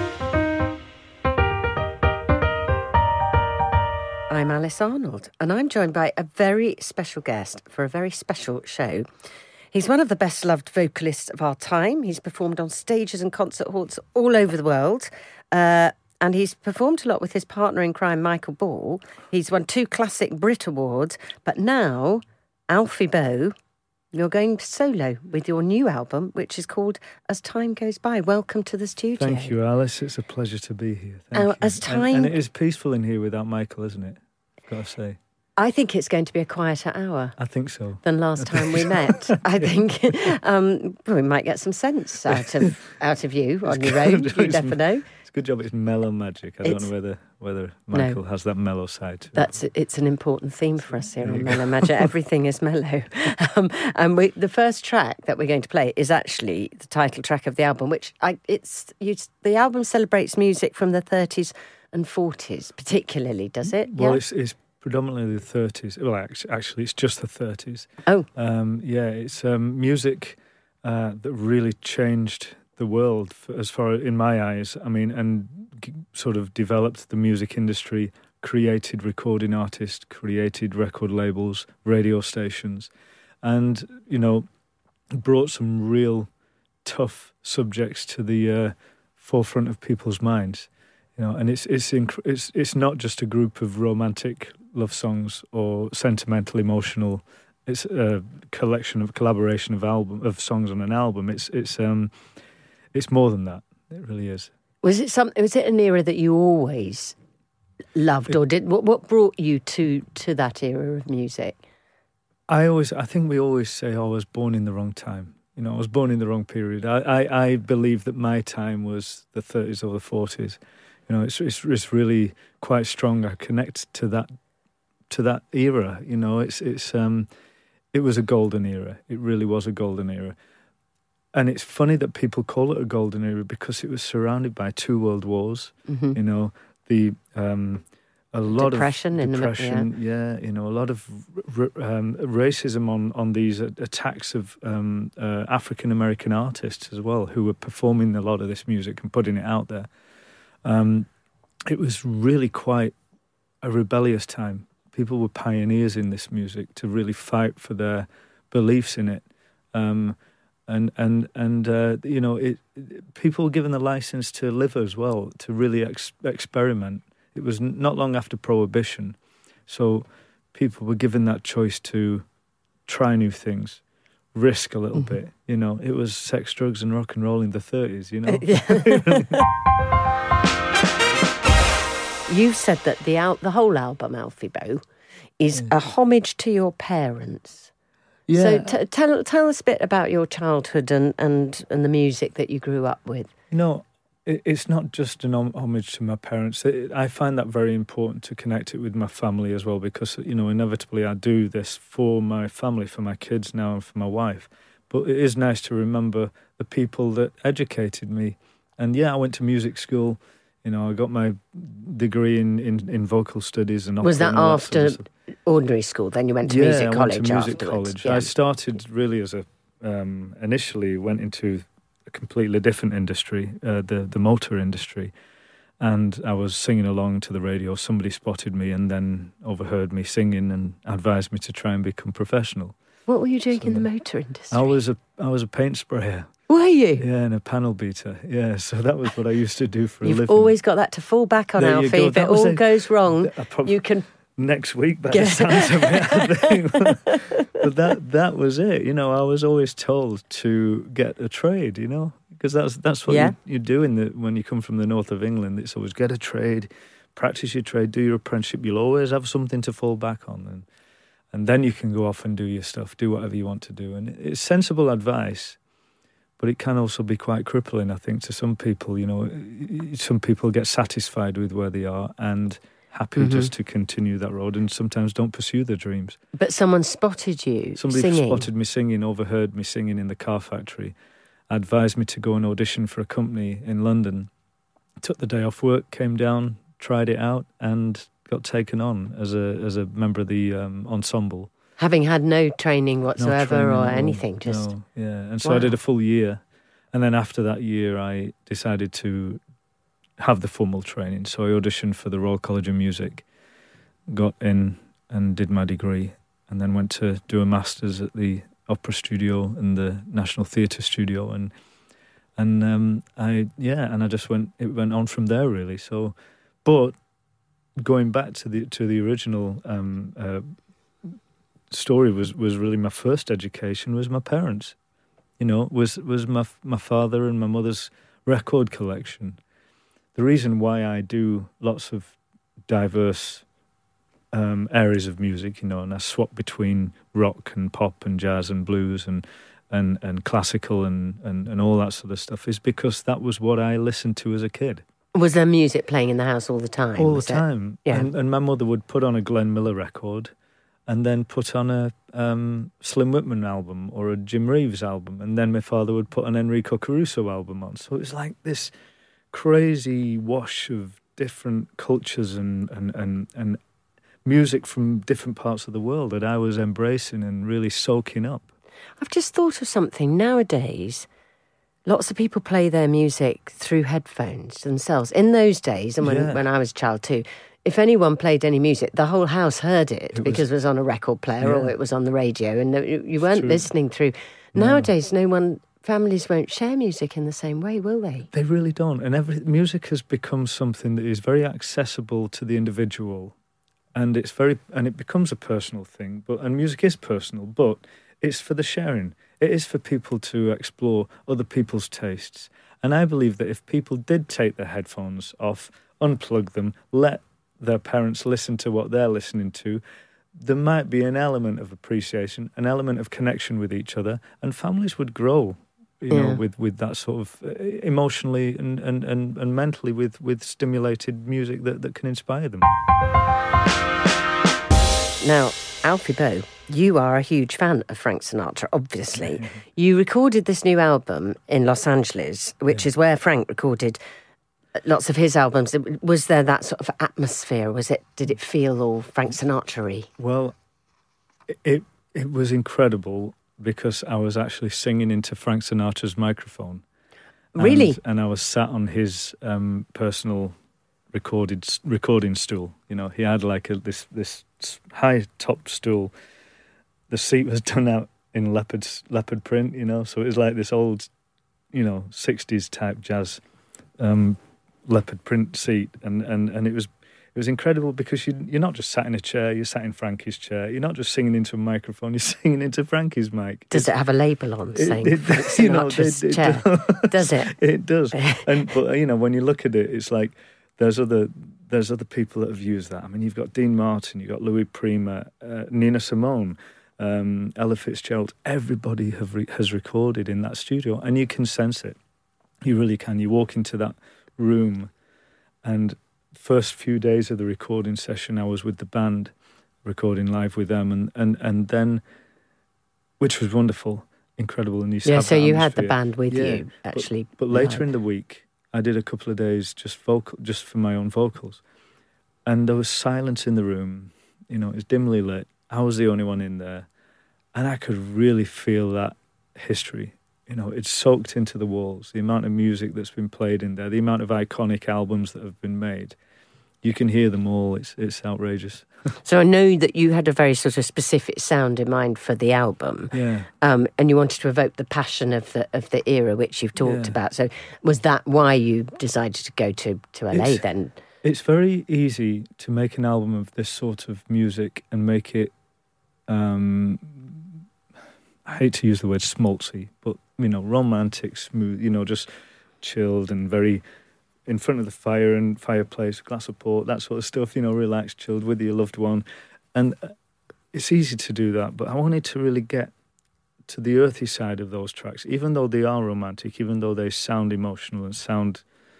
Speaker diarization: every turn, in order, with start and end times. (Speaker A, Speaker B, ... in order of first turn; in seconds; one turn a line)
Speaker A: 4.3-9.1
Speaker A: 9.7-23.5
Speaker A: 24.1-29.5
Speaker B: 29.2-35.2
Speaker A: 31.3-32.3
Speaker A: 35.6-37.4
Speaker B: 37.4-39.4
Speaker A: 38.0-45.1
Speaker B: 43.6-49.5
Speaker A: 46.6-46.9
Speaker A: 47.9-48.2
Speaker A: 49.3-64.2
Speaker B: 51.2-52.0
Speaker B: 63.9-82.9
Speaker B: 83.4-84.4
Speaker B: 85.1-86.3
Speaker B: 86.8-102.1
Speaker B: 102.9-104.5
Speaker A: 104.8-107.1
Speaker A: 107.9-111.6
Speaker B: 112.5-124.3
Speaker B: 125.1-127.3
Speaker B: 127.9-130.4
Speaker B: 131.3-149.9
Speaker A: 135.9-136.2
Speaker A: 138.5-139.9
Speaker B: 150.6-151.1
Speaker B: 151.7-152.9
Speaker B: 153.6-172.2
Speaker B: 172.9-173.8
Speaker B: 174.3-179.3
Speaker A: 178.3-179.4
Speaker A: 182.3-184.8
Speaker A: 185.4-187.7
Speaker B: 188.3-188.8
Speaker A: 188.3-193.3
Speaker B: 193.5-215.0
Speaker A: 214.0-218.3
Speaker B: 216.4-225.1
Speaker B: 225.8-232.7
Speaker A: 233.1-234.7
Speaker B: 233.5-233.9
Speaker B: 234.5-236.3
Speaker A: 236.5-237.1
Speaker B: 237.0-240.5
Speaker A: 240.0-244.1
Speaker B: 241.6-243.8
Speaker B: 244.4-260.6
Speaker A: 245.1-247.5
Speaker A: 253.1-253.3
Speaker B: 261.3-265.6
Speaker B: 266.4-276.2
Speaker A: 273.1-273.5
Speaker A: 276.4-278.5
Speaker B: 277.8-280.9
Speaker B: 281.5-284.3
Speaker B: 285.0-291.5
Speaker A: 291.8-294.7
Speaker B: 293.2-296.4
Speaker A: 295.4-295.7
Speaker B: 296.9-299.4
Speaker B: 300.2-303.2
Speaker B: 304.1-311.5
Speaker B: 312.4-316.9
Speaker B: 317.8-320.4
Speaker B: 321.7-324.8
Speaker B: 325.4-329.4
Speaker B: 330.1-332.2
Speaker B: 332.7-333.4
Speaker B: 334.3-344.8
Speaker A: 345.1-348.1
Speaker B: 347.0-350.3
Speaker B: 350.9-358.7
Speaker B: 359.3-363.6
Speaker B: 364.2-368.4
Speaker A: 369.0-371.1
Speaker A: 371.9-388.3
Speaker B: 376.0-376.4
Speaker B: 380.1-380.4
Speaker B: 381.4-381.7
Speaker B: 383.2-383.7
Speaker B: 384.5-384.9
Speaker B: 388.3-393.3
Speaker B: 393.9-409.8
Speaker B: 410.4-422.7
Speaker A: 416.1-416.4
Speaker A: 425.2-434.0
Speaker B: 429.2-429.5
Speaker A: 434.8-440.1
Speaker B: 440.2-440.5
Speaker B: 441.5-446.8
Speaker A: 447.6-448.0
Speaker B: 447.6-450.5
Speaker B: 451.1-456.1
Speaker B: 457.1-461.1
Speaker B: 461.7-463.4
Speaker B: 464.0-473.9
Speaker A: 473.7-477.5
Speaker B: 474.7-492.0
Speaker A: 478.1-478.5
Speaker B: 492.6-494.9
Speaker B: 495.6-499.3
Speaker B: 499.8-502.0
Speaker B: 503.2-511.6
Speaker A: 505.0-507.9
Speaker B: 512.5-516.9
Speaker B: 517.5-526.1
Speaker B: 526.8-528.9
Speaker A: 529.2-541.0
Speaker B: 533.1-533.5
Speaker B: 536.8-537.2
Speaker B: 540.3-540.6
Speaker B: 541.2-545.5
Speaker B: 546.3-547.4
Speaker B: 548.5-552.3
Speaker B: 552.8-553.8
Speaker B: 554.5-560.1
Speaker B: 560.7-562.9
Speaker B: 563.7-568.6